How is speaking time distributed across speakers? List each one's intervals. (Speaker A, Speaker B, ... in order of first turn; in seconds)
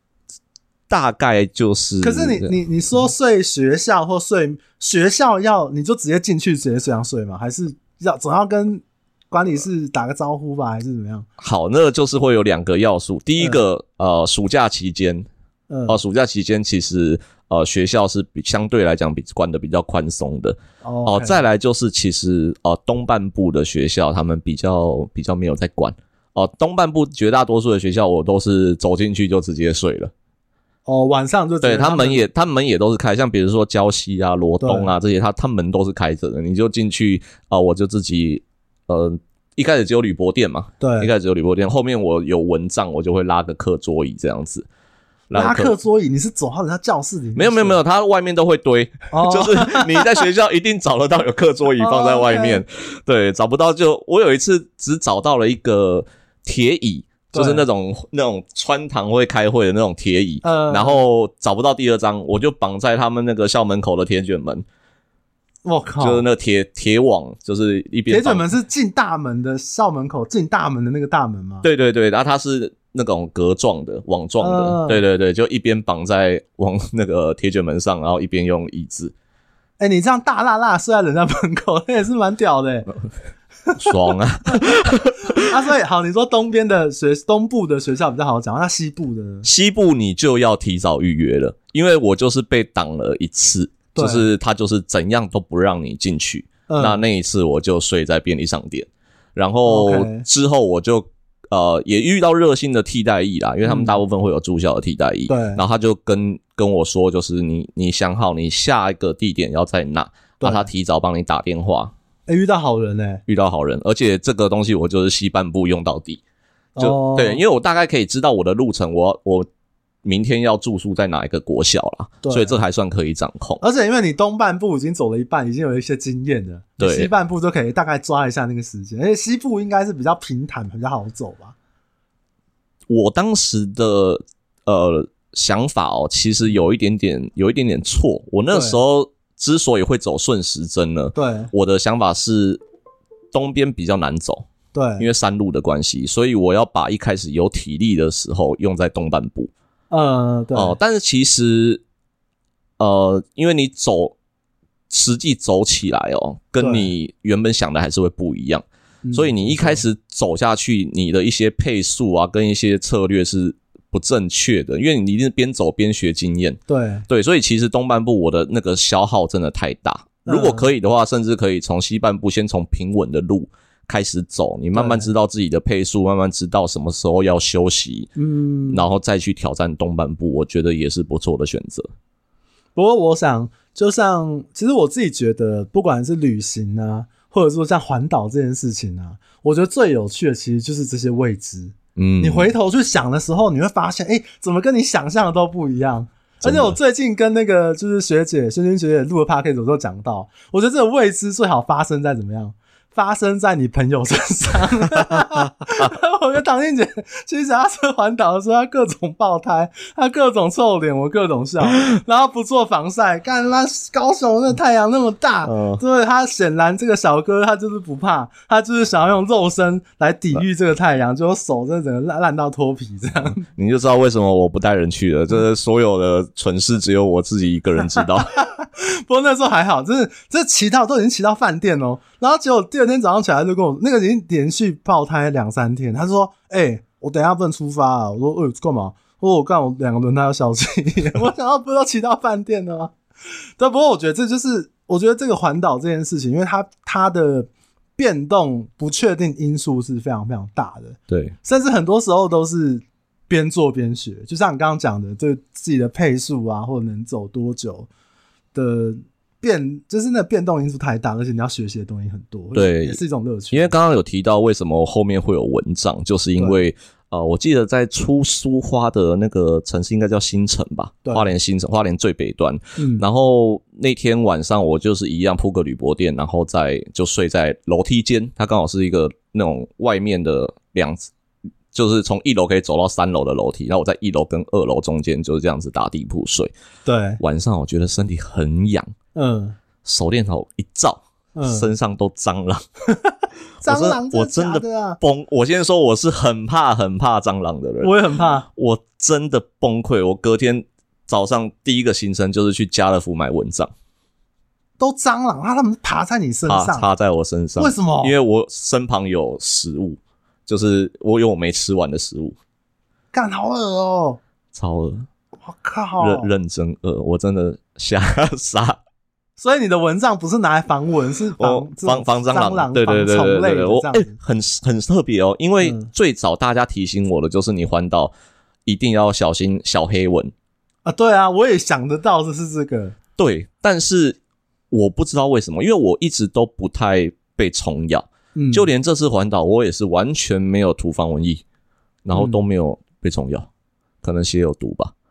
Speaker A: 0.9-2.5, 11.4-15.2, 15.9-30.1, 31.6-44.6, 45.3-45.7, 47.3-64.6, 66.0-68.5, 71.6-79.1, 83.8-85.5, 89.4-111.9, 113.3-116.2, 116.8-119.5, 120.0-123.6, 126.8-127.1, 132.9-142.6, 143.3-144.5, 145.0-149.5, 150.5-151.8, 152.8-154.1, 154.9-178.1, 178.7-181.9, 191.9-192.5, 196.4-196.7, 215.4-215.8, 223.5-228.3, 251.1-251.3, 262.5-263.0, 263.5-281.1, 281.7-286.5, 287.2-288.9, 289.8-292.6, 293.6-297.9, 298.5-303.7, 306.5-312.4, 314.5-315.1, 316.0-318.8, 321.4-328.1, 328.6-330.3, 333.2-334.2, 334.7-341.4, 342.0-343.5, 344.0-344.9
Speaker B: 2.0-11.3, 15.7-16.0, 20.8-21.4, 30.9-32.2, 34.6-34.9, 40.8-41.1, 45.3-47.8, 49.1-50.2, 51.8-52.6, 57.3-57.6, 60.4-61.0, 65.6-66.2, 68.1-71.7, 74.4-75.0, 79.8-82.9, 85.3-89.5, 93.9-94.3, 96.7-97.0, 99.6-100.2, 103.7-104.0, 105.3-105.6, 110.4-110.7, 112.3-113.2, 116.8-117.4, 122.2-122.6, 123.6-131.5, 138.5-138.8, 141.1-141.5, 144.7-145.1, 149.9-150.8, 156.6-156.9, 159.0-159.8, 166.7-167.1, 170.2-170.7, 174.7-175.1, 178.2-178.8, 182.8-223.4, 228.3-242.9, 243.6-257.9, 258.5-263.7, 271.0-271.3, 272.8-273.0, 286.8-287.2, 289.1-289.6, 291.3-291.7, 292.9-295.0, 297.8-298.5, 304.8-306.9, 307.6-308.1, 313.1-314.2, 315.4-316.3, 319.4-324.1, 325.6-325.9, 330.8-332.9, 338.3-338.7, 342.1-342.4